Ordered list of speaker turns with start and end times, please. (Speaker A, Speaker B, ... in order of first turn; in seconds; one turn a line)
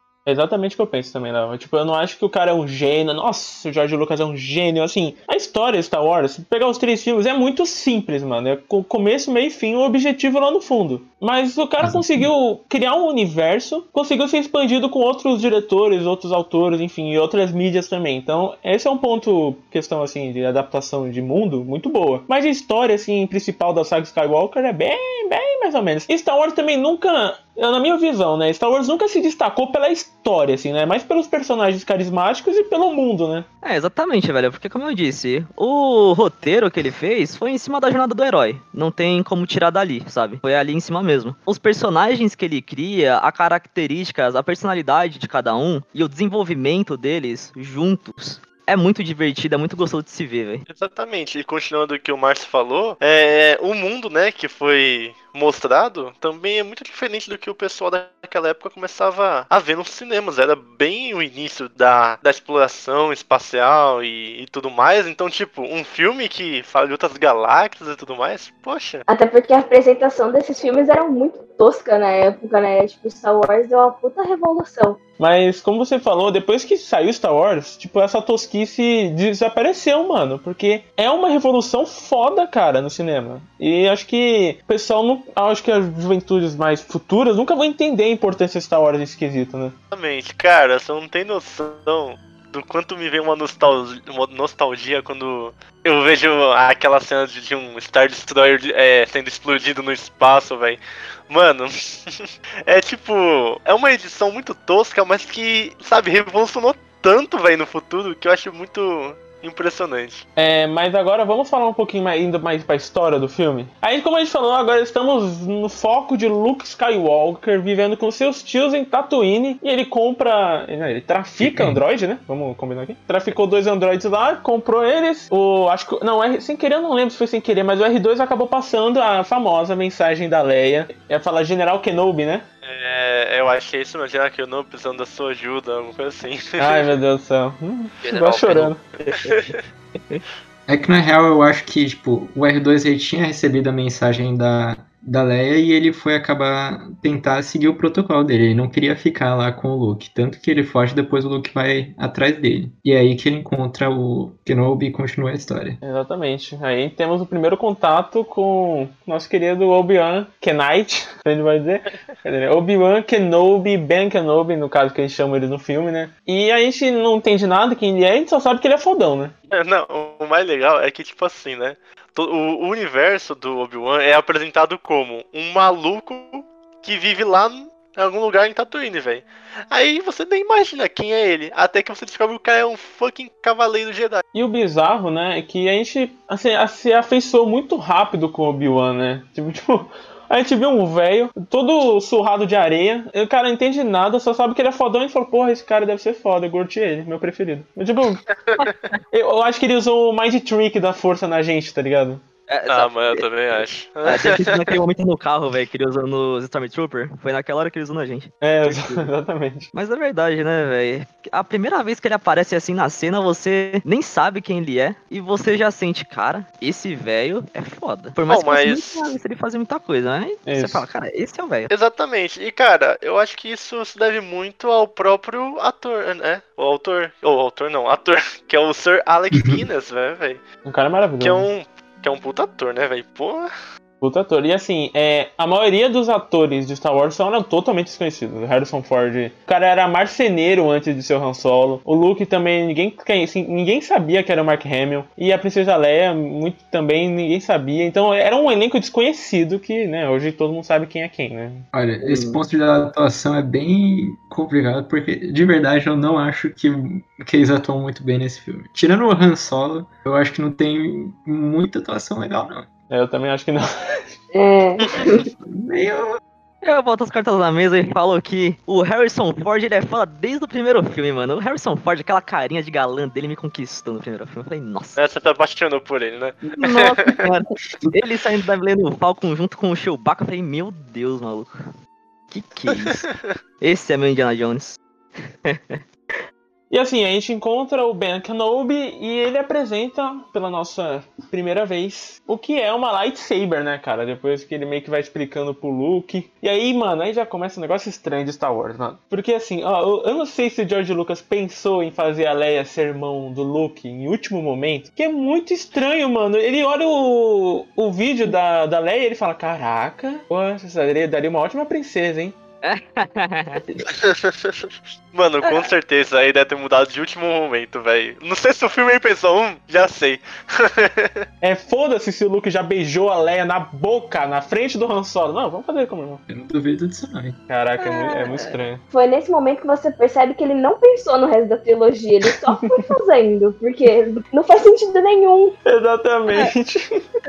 Speaker A: 0.2-33.5
Speaker B: 11.8-12.3
Speaker C: 33.6-50.6
Speaker D: 50.7-69.0
Speaker E: 69.1-75.0
Speaker A: 75.2-89.7
Speaker D: 89.9-110.2
Speaker A: 110.4-132.4
Speaker B: 121.4-121.8
Speaker D: 132.6-136.9
Speaker A: 136.6-138.8
Speaker D: 138.0-139.6
Speaker C: 138.1-139.5
Speaker B: 140.7-155.8
Speaker A: 155.8-169.3
Speaker D: 169.5-184.2
Speaker A: 184.3-198.2
Speaker D: 198.3-198.7
Speaker C: 198.6-198.9
Speaker A: 199.1-202.2
Speaker C: 202.5-209.1
Speaker D: 202.7-204.8
Speaker A: 208.4-209.7
Speaker C: 209.7-221.7
Speaker D: 218.3-219.1
Speaker A: 220.5-220.8
Speaker D: 221.7-230.4
Speaker B: 229.3-229.6
Speaker A: 230.6-231.5
Speaker D: 231.2-233.5
Speaker A: 234.0-251.7
Speaker B: 251.7-262.7
Speaker C: 252.0-252.4
Speaker A: 262.9-264.0
Speaker E: 264.3-265.3
Speaker B: 265.0-266.2
Speaker C: 266.6-275.0
Speaker D: 274.9-277.2
Speaker C: 276.5-281.5
Speaker C: 282.3-283.1
Speaker D: 282.9-283.3
Speaker C: 283.6-284.8
Speaker C: 285.4-285.8
Speaker A: 286.7-312.4
Speaker C: 312.6-313.6
Speaker D: 313.8-321.2
Speaker C: 315.4-315.7
Speaker A: 321.4-326.2
Speaker B: 326.3-327.4
Speaker A: 327.5-328.8
Speaker C: 327.9-328.3
Speaker E: 328.9-335.6
Speaker A: 335.6-336.9